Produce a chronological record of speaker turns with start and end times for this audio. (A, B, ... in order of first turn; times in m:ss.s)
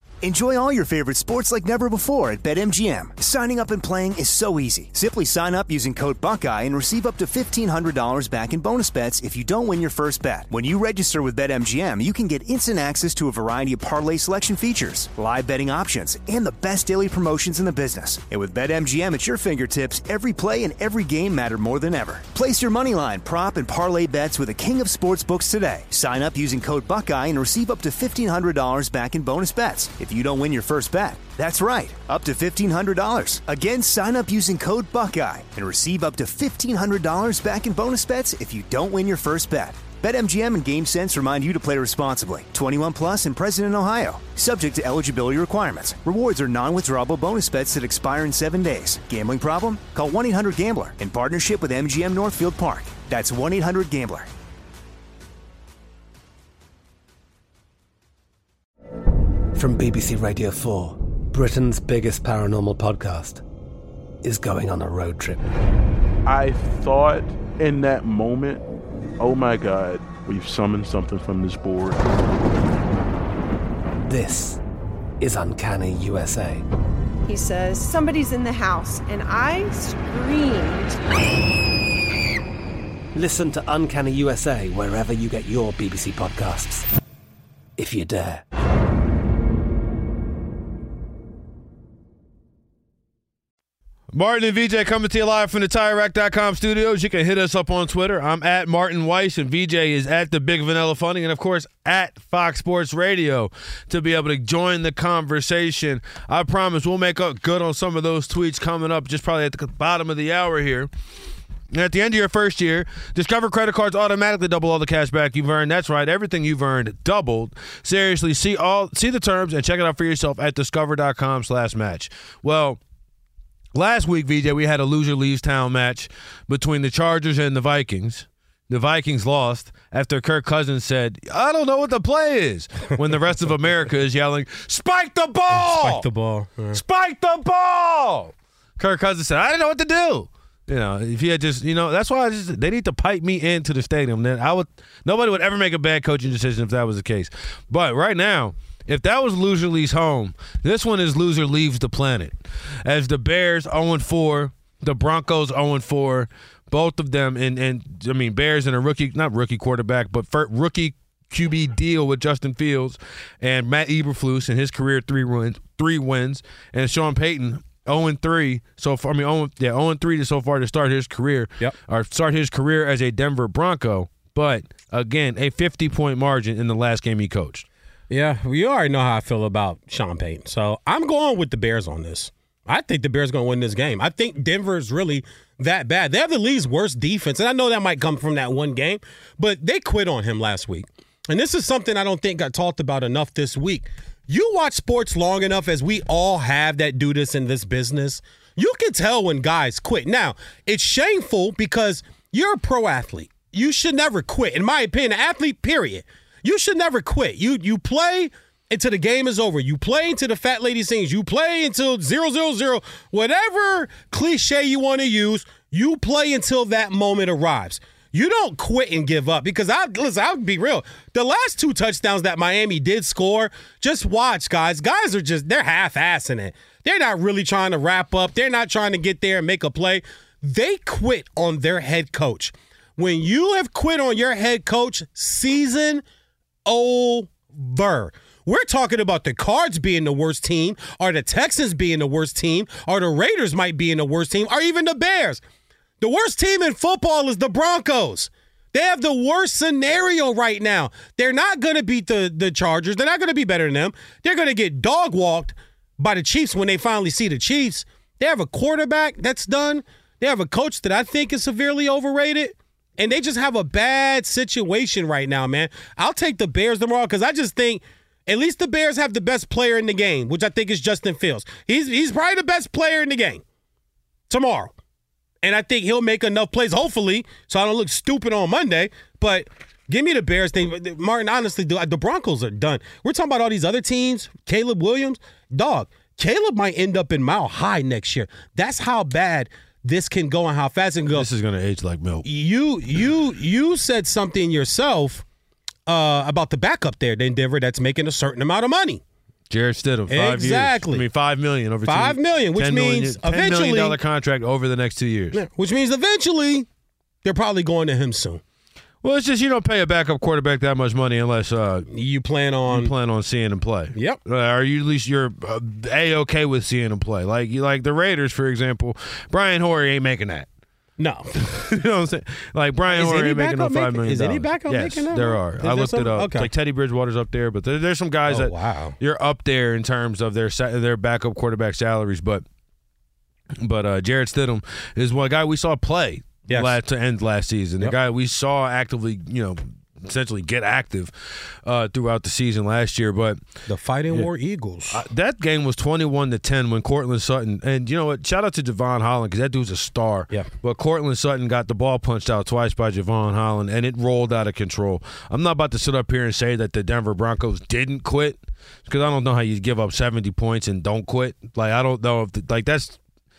0:00.2-0:54.3 A
0:59.5-1:03.4 B
1:04.2-1:05.4 B
1:06.2-1:08.6 C
1:09.2-1:12.0 C
1:14.0-1:14.6 B
1:15.2-1:16.6 B
1:17.2-1:21.0 D
1:23.1-1:26.8 B
1:27.8-1:28.4 B
1:34.1-1:50.9 E
1:51.7-2:02.8 E
2:03.7-2:16.0 E
2:15.5-2:16.8 F
2:16.7-2:57.6 E
2:58.1-3:56.0 F
3:56.6-4:05.4 F
4:06.0-4:33.4 F
4:34.3-4:34.7 F
4:35.4-4:51.3 F
4:51.1-4:52.3 E
4:52.2-4:55.2 F
4:55.9-4:59.0 F
4:59.5-5:05.4 E
5:00.1-5:01.0 F
5:01.8-5:04.0 F
5:05.3-5:06.7 F
5:07.2-5:08.4 F
5:09.0-5:11.9 E
5:11.9-5:12.9 F
5:12.7-5:20.5 E
5:21.0-5:21.3 F
5:21.4-5:32.4 E
5:22.9-5:26.5 F
5:28.3-5:28.9 F
5:33.6-5:43.4 E
5:36.5-5:36.8 F
5:43.7-5:45.0 F
5:44.9-6:03.0 E